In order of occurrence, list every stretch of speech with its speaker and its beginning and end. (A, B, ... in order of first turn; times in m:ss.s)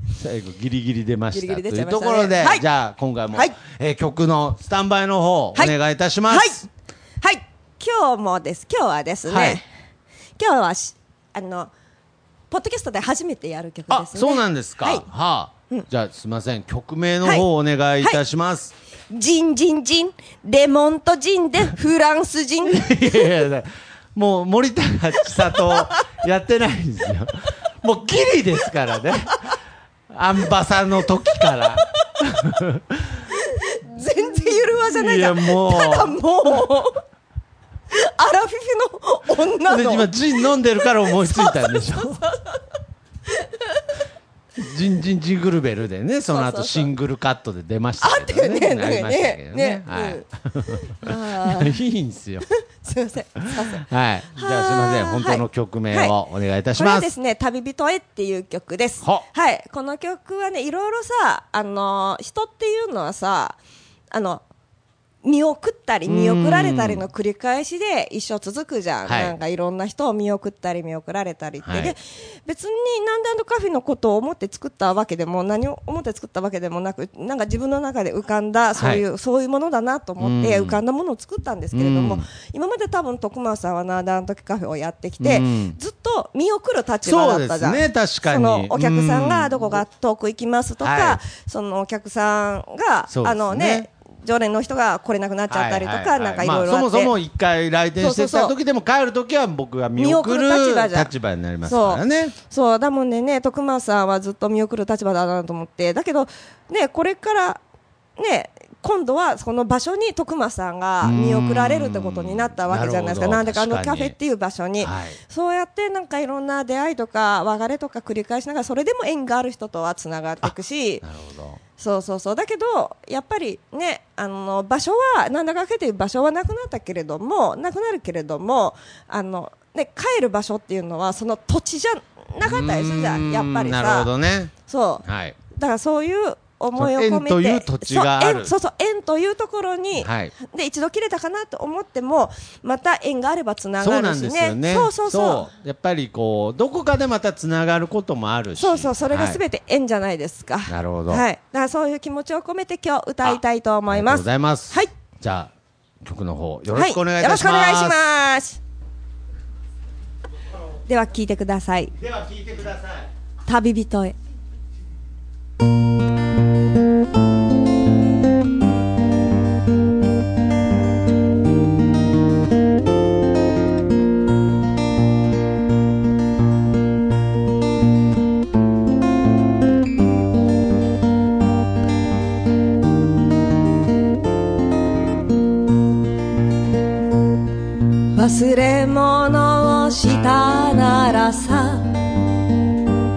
0:00.2-0:06.7 A
0:01.3-0:02.6 B
0:06.3-0:06.6 B
0:07.2-0:09.7 B
0:09.3-0:09.6 A
0:10.4-0:11.7 B
0:12.5-0:15.0 B
0:13.9-0:18.7 A
0:19.1-0:23.1 B
0:22.7-0:29.4 A
0:30.1-0:33.2 A
0:33.3-0:37.0 B
0:34.9-0:36.2 A
0:37.9-0:40.1 B
0:39.7-0:42.2 A
0:41.2-0:42.6 B
0:44.6-0:52.5 A
0:46.3-0:46.9 B
0:48.0-0:50.2 B
0:50.9-0:51.7 B
0:52.8-0:56.1 B
0:53.8-0:57.1 A
0:56.8-1:03.6 B
1:04.1-1:04.4 B
1:05.2-1:37.1 B
1:06.1-1:07.0 A
1:09.1-1:09.4 A
1:11.6-1:12.0 A
1:18.8-1:19.0 A
1:20.2-1:20.8 A
1:21.7-1:22.3 A
1:25.2-1:25.8 A
1:27.0-1:29.8 A
1:30.8-1:31.2 A
1:33.1-1:33.9 A
1:35.5-1:42.4 A
1:38.0-1:38.5 B
1:40.0-1:41.1 B
1:41.7-1:47.6 B
1:48.2-2:01.0 B
1:51.0-1:54.1 A
1:54.8-1:55.2 A
2:00.4-2:01.6 A
2:01.8-2:14.1 B
2:12.4-2:15.4 A
2:14.7-2:25.5 B
2:16.8-2:18.5 A
2:20.0-2:20.3 A
2:23.8-2:29.4 A
2:28.6-2:34.9 B
2:30.7-2:31.2 A
2:33.2-2:35.5 A
2:36.0-2:38.0 A
2:36.7-2:38.6 B
2:40.9-2:42.0 B
2:42.0-2:43.1 A
2:43.4-2:44.1 B
3:08.1-3:11.9 B